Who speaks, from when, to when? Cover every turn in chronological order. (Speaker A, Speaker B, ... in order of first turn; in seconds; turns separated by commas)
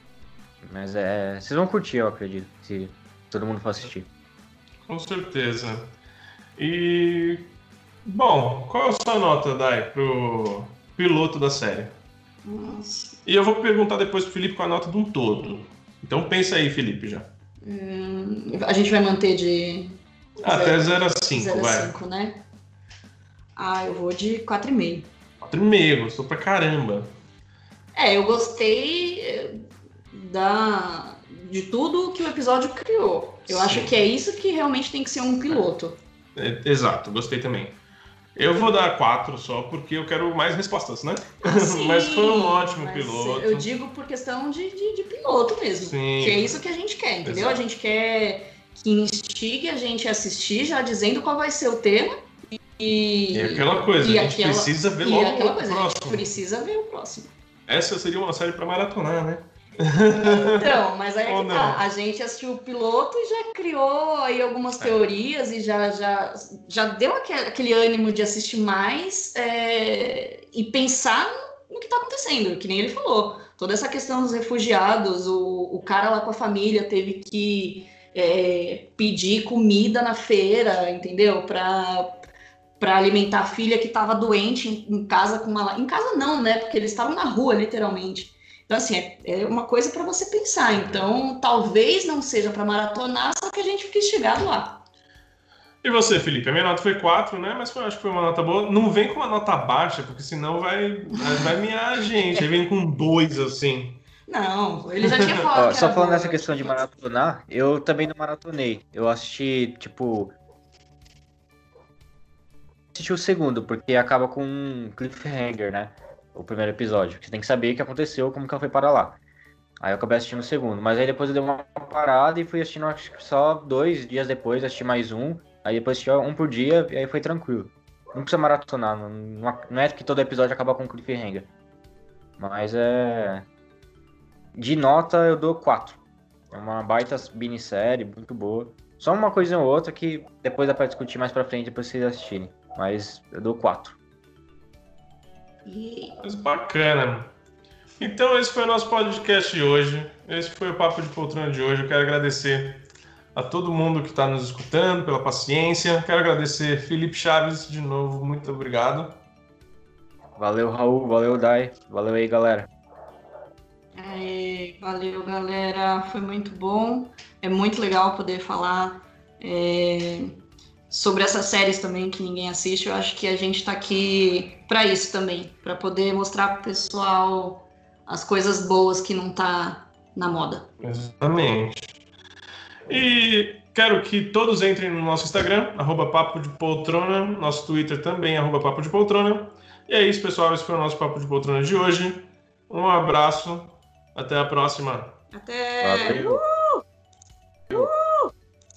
Speaker A: 0.6-4.1, Speaker B: 4.8-5.9, Speaker B: 6.6-7.5, Speaker B: 8.0-11.9, Speaker C: 12.4-13.2, Speaker B: 13.2-17.3, Speaker C: 17.6-22.4, Speaker B: 20.4-22.0, Speaker C: 23.6-25.1, Speaker B: 25.4-27.1, Speaker C: 27.9-36.0, Speaker B: 33.5-33.9, Speaker B: 36.3-37.8, Speaker B: 38.4-43.7, Speaker C: 41.4-52.2, Speaker B: 45.8-46.6, Speaker B: 47.2-47.6, Speaker C: 52.8-57.3, Speaker B: 53.3-56.3, Speaker B: 57.7-61.8, Speaker C: 60.1-82.2, Speaker B: 64.8-65.0, Speaker C: 82.8-94.8, Speaker B: 90.7-91.1, Speaker B: 95.8-104.0, Speaker C: 101.1-101.5, Speaker C: 104.3-106.8, Speaker B: 105.0-105.3, Speaker A: 105.5-110.3, Speaker A: 112.9-119.2, Speaker A: 119.8-131.5, Speaker A: 132.4-133.5, Speaker A: 134.5-136.0, Speaker A: 136.5-144.0, Speaker C: 145.7-146.2, Speaker B: 146.2-147.3, Speaker B: 148.0-159.2, Speaker A: 160.4-162.7, Speaker C: 163.9-170.4, Speaker C: 170.9-180.7, Speaker B: 180.8-182.0, Speaker B: 182.9-195.2, Speaker C: 195.3-196.8, Speaker A: 195.8-196.4, Speaker C: 197.7-198.3